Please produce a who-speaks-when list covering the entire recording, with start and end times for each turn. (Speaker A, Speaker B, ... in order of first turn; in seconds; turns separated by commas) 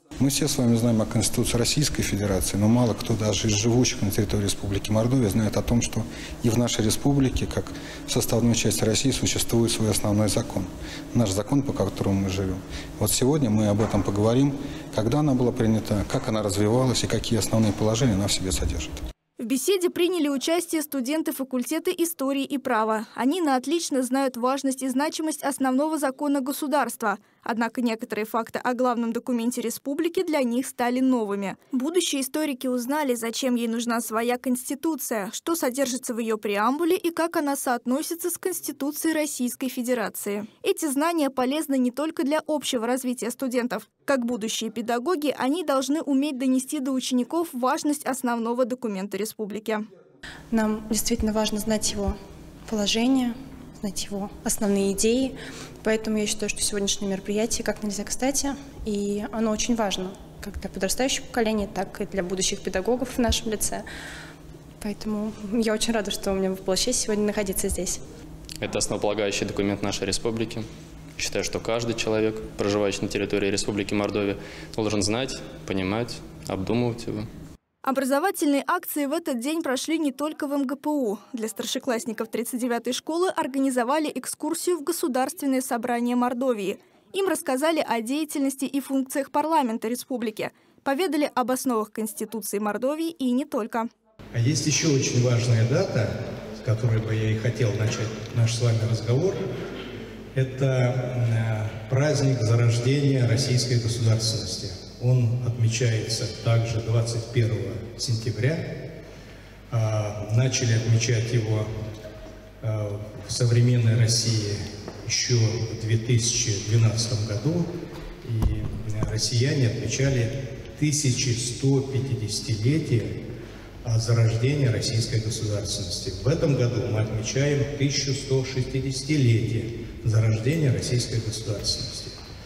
Speaker A: 0.2-19.0, Speaker B: 19.4-49.9, Speaker C: 50.5-52.1, Speaker C: 52.7-63.8, Speaker C: 64.8-68.0, Speaker D: 68.6-70.7, Speaker D: 71.2-77.3, Speaker B: 77.8-93.9, Speaker E: 94.3-99.4, Speaker E: 100.3-108.8, Speaker E: 109.7-111.7, Speaker E: 112.6-117.7, Speaker E: 118.2-123.2, Speaker E: 123.8-132.1